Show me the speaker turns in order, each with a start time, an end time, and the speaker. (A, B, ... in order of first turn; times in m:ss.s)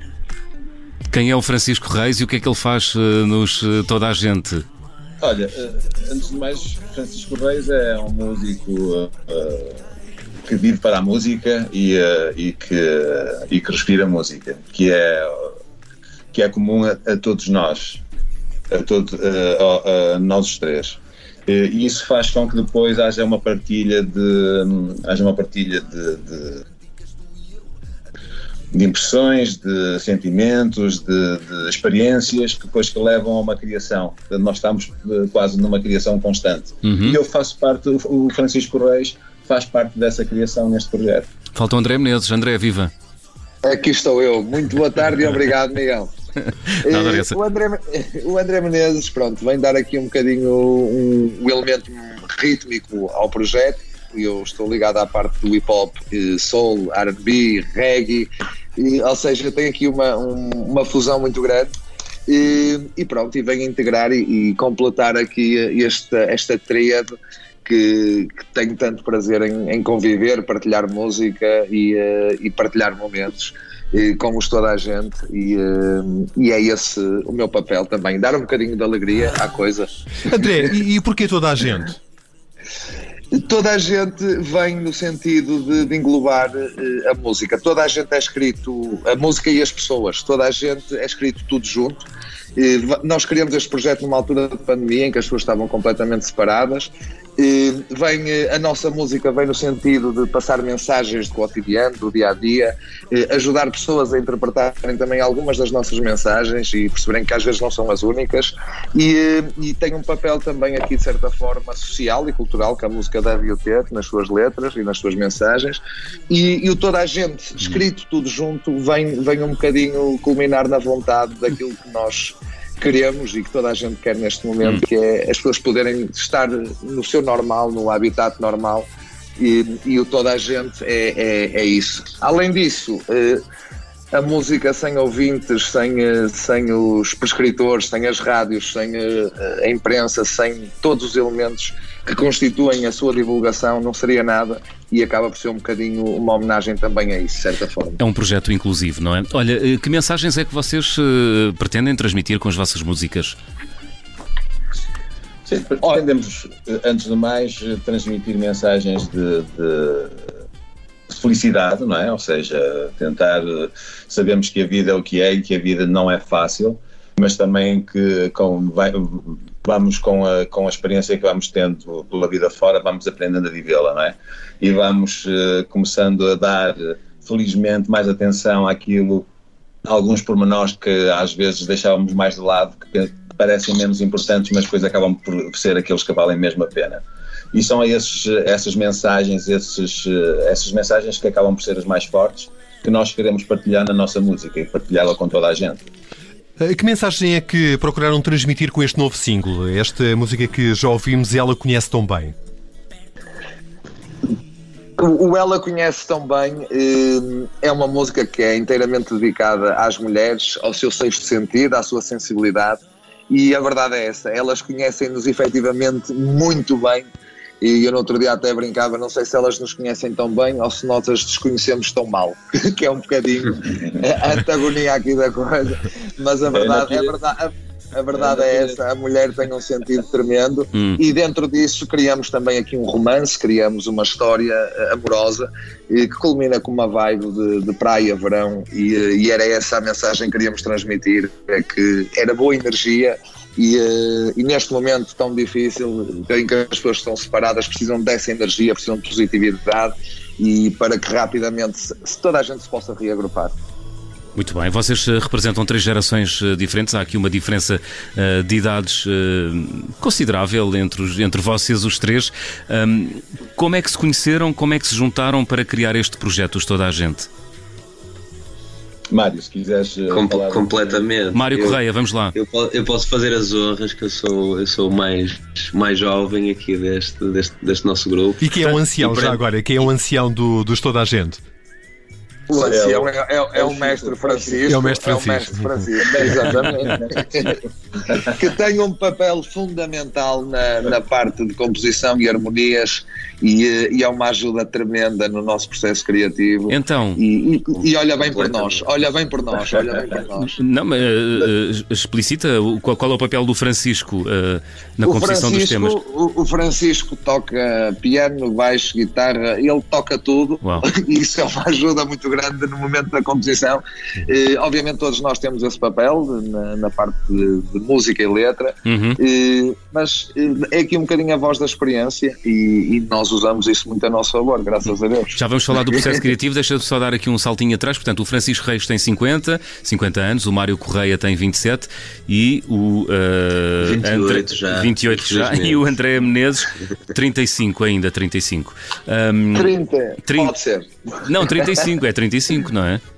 0:01.1-0:04.6 A
0:05.2-0:09.8 B
0:10.4-0:15.6 B
0:16.3-0:18.0 B
0:18.7-0:26.6 B
0:28.7-0:41.3 B
0:36.8-0:37.2 A
0:41.5-0:42.9 A
0:43.6-0:46.1 C
0:46.8-1:01.7 C
0:46.9-0:47.3 A
1:02.3-1:19.9 C
1:20.2-1:22.0 D
1:23.3-1:32.0 C
1:32.6-2:13.4 C
2:14.1-2:28.0 C
2:28.0-2:33.4 A
2:35.4-2:40.2 B
2:41.1-2:59.3 B
2:59.8-3:15.8 B
3:16.6-3:22.3 D
3:25.0-4:13.5 C
3:46.5-3:47.1 B
3:48.1-3:48.8 B
3:50.7-3:51.0 A
4:14.4-4:27.3 A
4:29.1-4:31.0 B
4:30.1-4:31.8 E
4:31.3-4:32.3 A
4:32.3-4:39.4 E
4:38.4-4:41.4 D
4:42.5-4:47.6 C
4:42.5-4:44.7 B
4:44.6-4:45.7 D
4:46.0-4:48.3 B
4:48.2-5:00.6 C
4:56.7-4:57.2 A
4:58.1-4:58.9 E
5:00.5-5:06.0 A
5:05.0-5:25.4 C
5:18.8-5:19.2 A
5:25.4-5:40.5 A
5:33.8-5:35.9 E
5:39.5-5:41.8 C
5:41.2-5:43.0 A